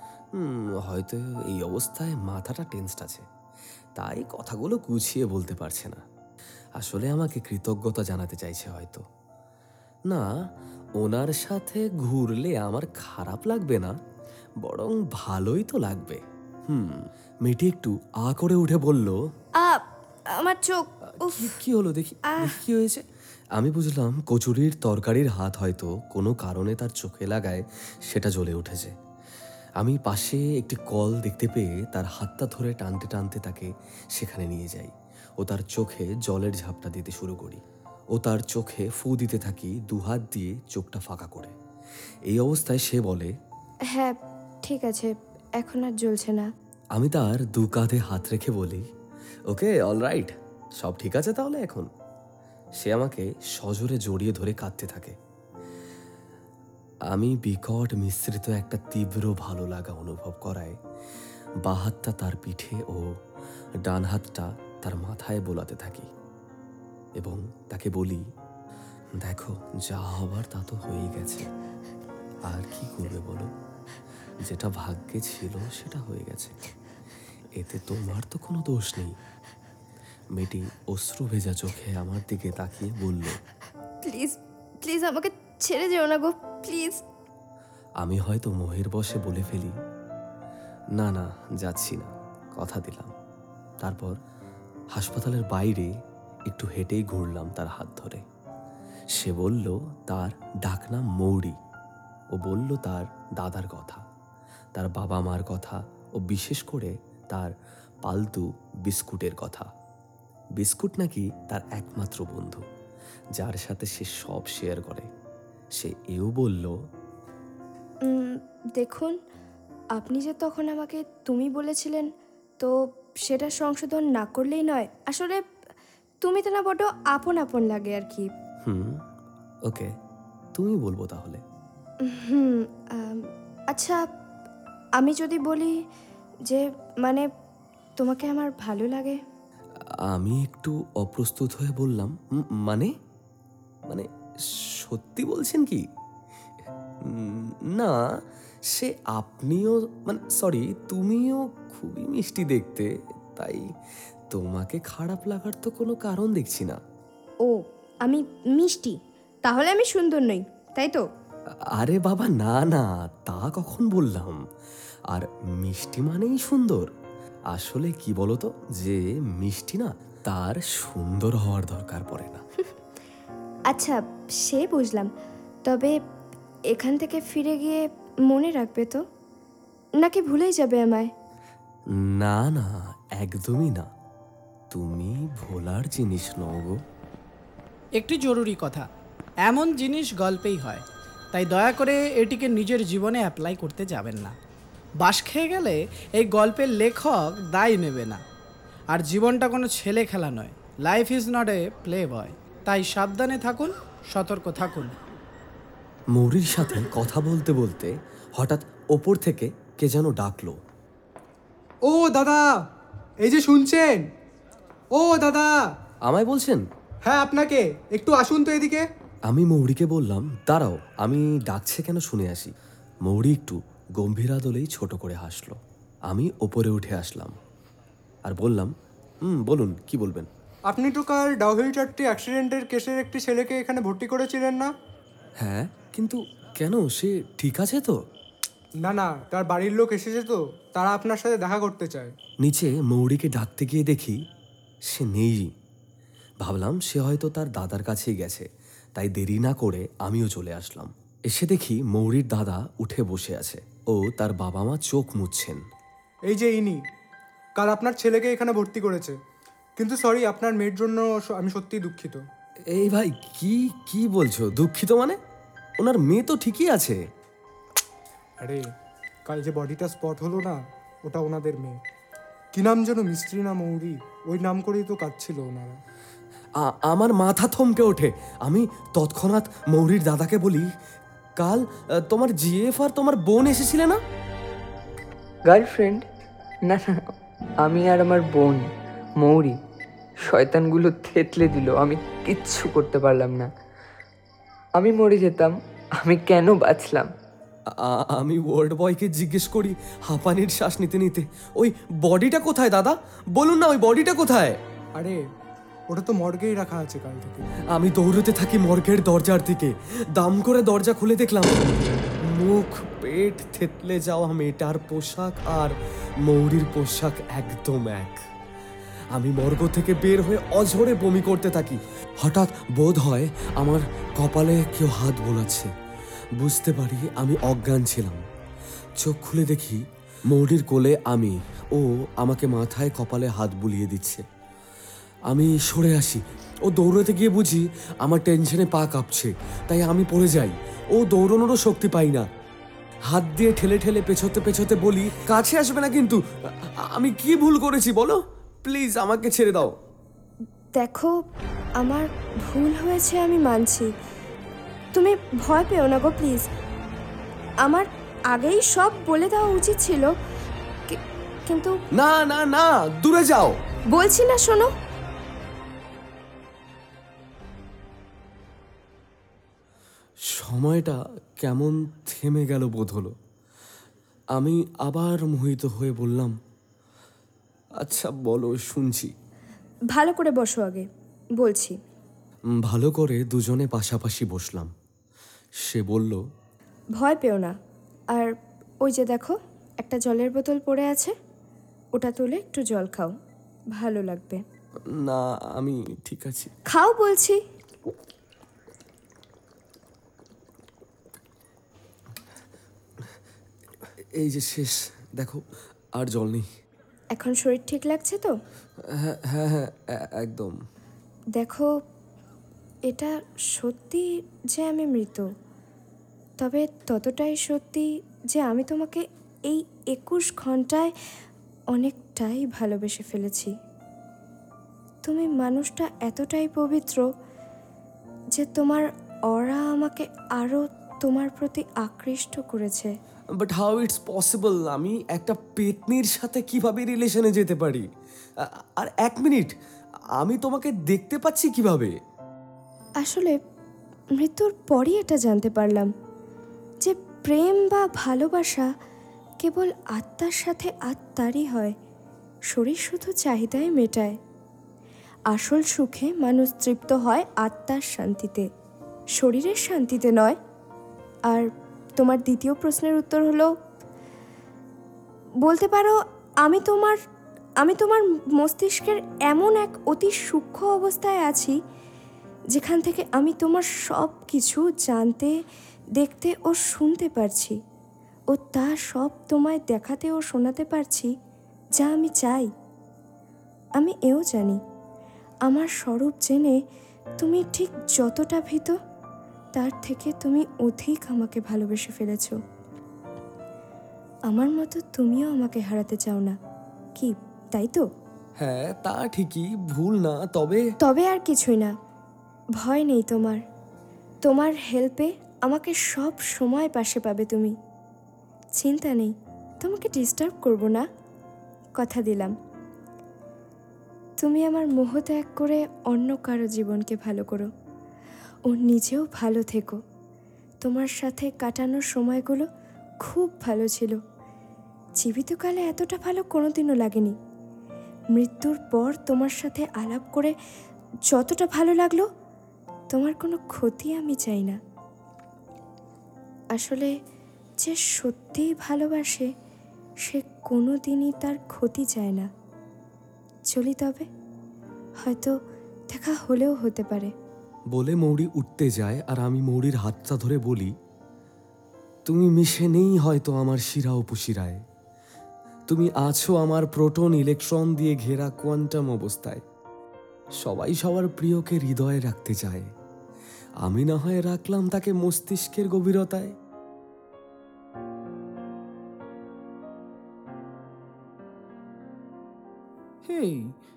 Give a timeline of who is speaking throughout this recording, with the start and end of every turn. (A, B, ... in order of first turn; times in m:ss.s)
0:00.4-0:03.2 A
0:04.0-0:06.0 A
0:06.8-0:09.0 A
0:11.0-0:14.0 A
0:14.6-0:19.2 A
0:19.6-0:21.5 B
0:21.1-0:28.9 A
0:29.8-0:37.6 A
0:38.1-0:41.5 A
0:42.3-0:43.3 A
0:43.9-0:46.5 B
0:46.9-0:48.8 A
0:49.5-0:51.9 A
0:52.8-0:55.2 A
0:57.1-1:00.8 A
1:01.6-1:03.0 A
1:03.8-1:06.1 A
1:07.2-1:08.2 A
1:09.2-1:11.5 A
1:12.5-1:13.5 A
1:14.4-1:16.6 A
1:17.6-1:19.2 A
1:20.4-1:23.4 A
1:24.0-1:27.0 B
1:28.0-1:29.8 A
1:31.0-1:33.1 A
1:33.8-1:34.2 A
1:34.9-1:35.9 A
1:36.5-1:38.2 A
1:39.1-1:41.6 A
1:42.3-1:44.0 A
1:44.7-1:47.5 A
1:48.0-1:49.7 A
1:50.6-1:52.6 A
1:53.4-1:55.1 A
1:55.8-1:56.7 A
1:58.0-1:59.2 B
2:00.0-2:02.1 B
2:02.6-2:05.4 B
2:06.2-2:08.3 B
2:08.6-2:09.0 A
2:09.7-2:09.9 A
2:10.6-2:11.4 A
2:12.0-2:14.0 B
2:15.0-2:15.7 B
2:16.4-2:17.3 B
2:18.0-2:19.2 B
2:20.0-2:22.9 A
2:23.9-2:25.9 A
2:27.0-2:28.0 A
2:28.7-2:33.7 A
2:34.3-2:36.8 A
2:37.4-2:41.0 B
2:41.8-2:44.4 A
2:45.1-2:46.9 A
2:47.5-2:52.4 A
2:53.7-2:55.1 B
2:55.7-2:55.9 B
2:56.7-2:59.0 B
3:00.0-3:01.1 B
3:02.0-3:03.9 A
3:04.7-3:06.8 A
3:08.0-3:08.8 C
3:09.4-3:14.4 C
3:15.0-3:18.2 C
3:18.9-3:25.0 C
3:26.1-3:30.6 A
3:31.8-3:32.5 D
3:33.2-3:34.1 D
3:34.9-3:35.5 D
3:36.0-3:36.6 A
3:37.0-3:38.8 D
3:39.3-3:42.5 A
3:43.0-3:47.4 A
3:48.2-3:48.7 A
3:49.2-3:50.3 A
3:50.7-3:54.7 D
3:55.4-3:58.0 A
3:58.8-4:02.1 D
4:02.4-4:04.2 A
4:04.9-4:05.5 A
4:06.4-4:15.6 A
4:16.3-4:16.8 D
4:17.6-4:19.2 D
4:19.8-4:22.2 D
4:22.7-4:25.2 A
4:25.8-4:27.0 A
4:29.3-4:31.8 D
4:32.5-4:35.8 D
4:36.6-4:40.7 A
4:41.4-4:44.0 A
4:45.5-4:46.0 E
4:46.6-4:47.1 E
4:47.6-4:48.6 E
4:49.2-4:49.6 E
4:50.2-4:53.5 E
4:54.8-4:57.1 E
4:57.7-5:04.6 A
5:05.9-5:07.5 D
5:07.7-5:18.2 A
5:19.1-5:25.7 A
5:26.4-5:28.2 A
5:29.0-5:34.2 A
5:35.3-5:42.3 A
5:43.1-5:49.7 A
5:50.8-5:51.1 B
5:51.8-5:53.9 B
5:54.9-5:56.5 B
5:57.6-6:00.1 B
6:00.9-6:01.8 B
6:01.9-6:03.6 A
6:03.9-6:04.7 B
6:10.3-6:13.1 A
6:14.4-6:16.4 A
6:17.8-6:19.1 A
6:19.9-6:20.9 B
6:21.4-6:21.7 B
6:22.6-6:24.7 A
6:25.6-6:26.2 A
6:27.0-6:27.5 B
6:28.8-6:31.1 B
6:32.0-6:33.1 B
6:33.8-6:34.4 B
6:34.9-6:36.5 A
6:36.7-6:37.4 B
6:44.1-6:45.4 A
6:46.0-6:46.5 A
6:47.2-6:48.3 B
6:48.8-6:50.6 A
6:51.4-6:51.7 B
6:52.9-6:55.3 B
6:56.4-7:00.9 B
7:01.7-7:03.5 B
7:05.1-7:07.0 B
7:08.4-7:12.9 B
7:13.4-7:17.8 A
7:18.4-7:19.5 A
7:20.2-7:21.9 A
7:23.0-7:23.4 B
7:24.1-7:25.9 B
7:26.8-7:28.7 B
7:29.4-7:31.8 B
7:32.5-7:34.2 B
7:35.3-7:38.5 B
7:39.2-7:40.4 B
7:41.3-7:43.5 B
7:45.4-7:47.0 B
7:47.6-7:51.6 B
7:52.5-7:55.3 B
7:56.0-7:57.6 B
7:58.3-8:01.1 B
8:01.8-8:02.5 B
8:03.8-8:04.6 B
8:05.5-8:06.6 B
8:07.2-8:08.8 B
8:09.6-8:12.4 B
8:14.3-8:16.4 B
8:17.0-8:17.8 B
8:18.4-8:20.6 A
8:20.8-8:21.7 B
8:22.6-8:23.4 B
8:24.2-8:27.5 B
8:28.6-8:30.9 B
8:31.8-8:32.3 B
8:34.2-8:37.5 B
8:38.5-8:39.8 B
8:40.6-8:42.5 B
8:43.0-8:44.0 B
8:45.0-8:47.2 B
8:48.1-8:50.3 B
8:51.1-8:52.1 B
8:52.9-8:54.6 B
8:56.6-8:56.9 B
8:57.6-8:59.3 B
9:00.1-9:02.3 B
9:03.5-9:04.1 B
9:05.0-9:05.3 B
9:05.9-9:07.1 B
9:07.7-9:10.7 A
9:12.0-9:14.6 A
9:15.7-9:19.4 A
9:20.4-9:22.7 A
9:23.6-9:26.3 A
9:33.1-9:33.5 C